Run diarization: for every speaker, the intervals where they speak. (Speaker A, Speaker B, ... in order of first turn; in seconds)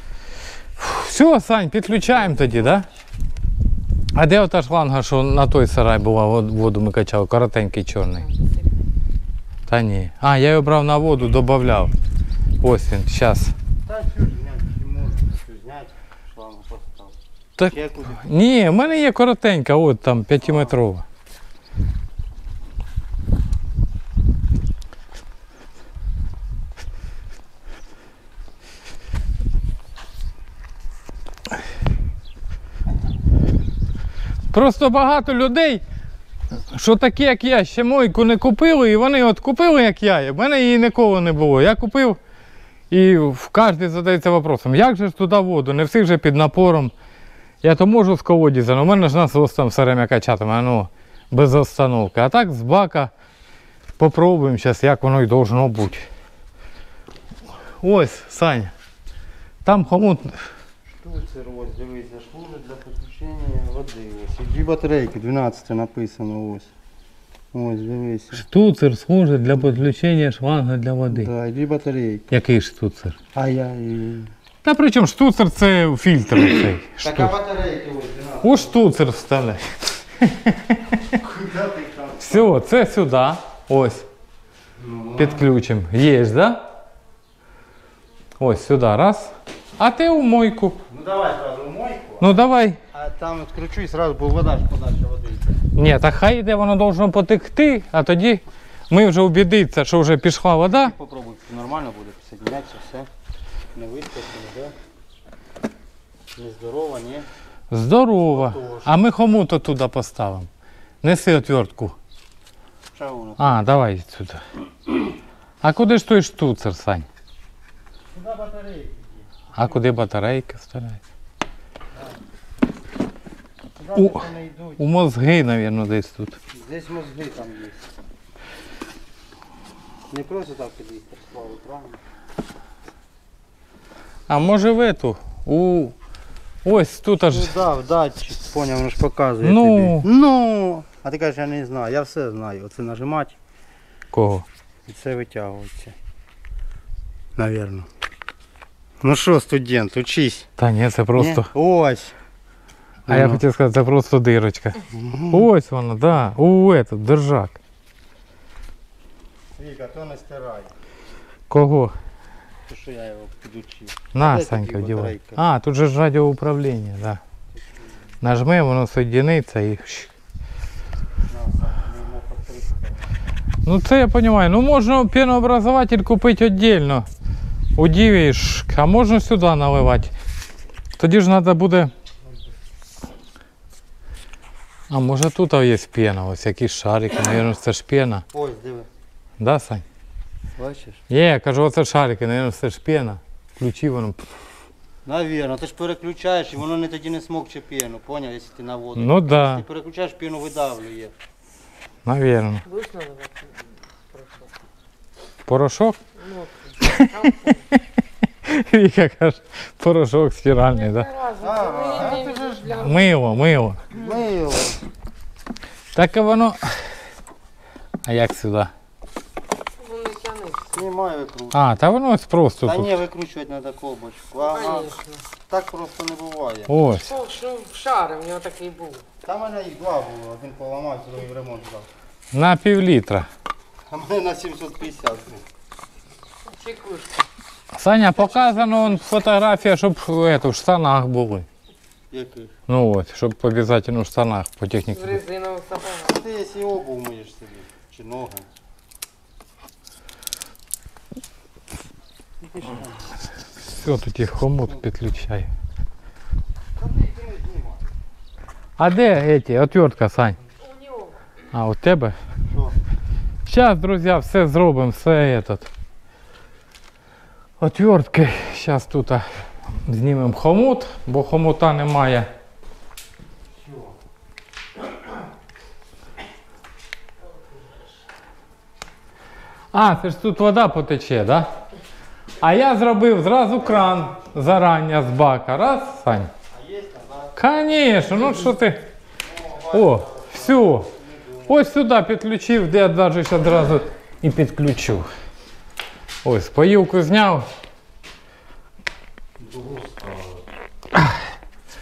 Speaker A: 0.8-2.9, 4.2-8.3, 9.7-11.9, 12.6-13.5, 17.6-21.1, 34.5-35.8, 36.7-42.2, 42.9-46.9, 47.6-53.1, 54.0-56.1, 57.8-58.7, 59.6-60.5, 68.3-71.3, 72.3-73.2, 74.6-77.3, 78.4-80.8, 82.2-84.1, 85.2-86.6, 88.4-90.8, 92.2-92.8, 95.8-100.9, 107.7-110.5, 111.0-112.0, 113.4-114.4, 115.6-117.1, 119.5-121.0, 124.0-124.2, 124.8-126.4, 134.3-135.9, 136.6-137.6, 139.4-140.1, 144.1-144.5, 150.6-151.5, 153.1-157.6, 161.5-161.9, 164.1-167.2, 168.2-170.1, 173.7-177.1, 177.8-180.1, 181.0-181.9, 184.9-188.2, 189.4-189.8, 191.1-194.2, 199.0-199.6, 202.1-202.6, 205.5-206.0, 208.4-211.1, 212.7-213.8, 215.9-216.8, 218.0-218.7, 221.5-223.0, 226.7-227.2, 232.3-233.3, 237.7-241.5, 242.7-245.2, 253.6-255.5, 258.8-260.4, 261.5-262.2, 263.5-265.7, 267.6-269.3, 269.8-272.3, 279.7-281.5, 282.4-286.3, 287.4-288.9, 289.7-290.9, 291.5-295.1, 296.2-297.5, 300.9-301.2
Speaker B: 2.1-3.0, 13.8-18.2, 20.4-20.8, 60.9-66.7, 67.5-68.5, 69.6-69.8, 71.1-72.3, 73.3-74.3, 77.0-78.8, 81.2-82.5, 84.8-85.5, 90.9-92.4, 92.9-95.6, 100.7-103.1, 103.8-104.7, 106.4-107.3, 108.3-108.9, 112.9-113.6, 118.1-119.9, 121.9-122.2, 123.8-124.8, 126.5-127.9, 130.1-132.0, 137.3-143.4, 144.9-146.0, 147.4-147.9, 149.0-150.5, 151.2-152.1, 153.1-153.4, 154.9-155.5, 159.6-160.7, 162.7-165.4, 171.3-173.2, 188.3-188.9, 190.6-191.0, 195.1-201.1, 211.4-212.9, 213.9-214.8, 220.7-221.8, 222.6-226.8, 229.2-231.9, 233.9-235.5, 238.2-239.0, 242.1-242.5, 246.0-248.5, 252.4-253.1, 256.8-257.9, 262.5-262.8, 273.5-273.9, 283.6-284.2, 286.5-287.4, 289.2-291.6, 299.4-300.4
Speaker C: 8.2-8.7, 202.7-204.5, 206.2-207.7, 210.7-213.2, 219.8-220.8, 224.5-225.2, 227.1-229.1, 236.5-237.3, 244.9-246.2, 260.6-261.3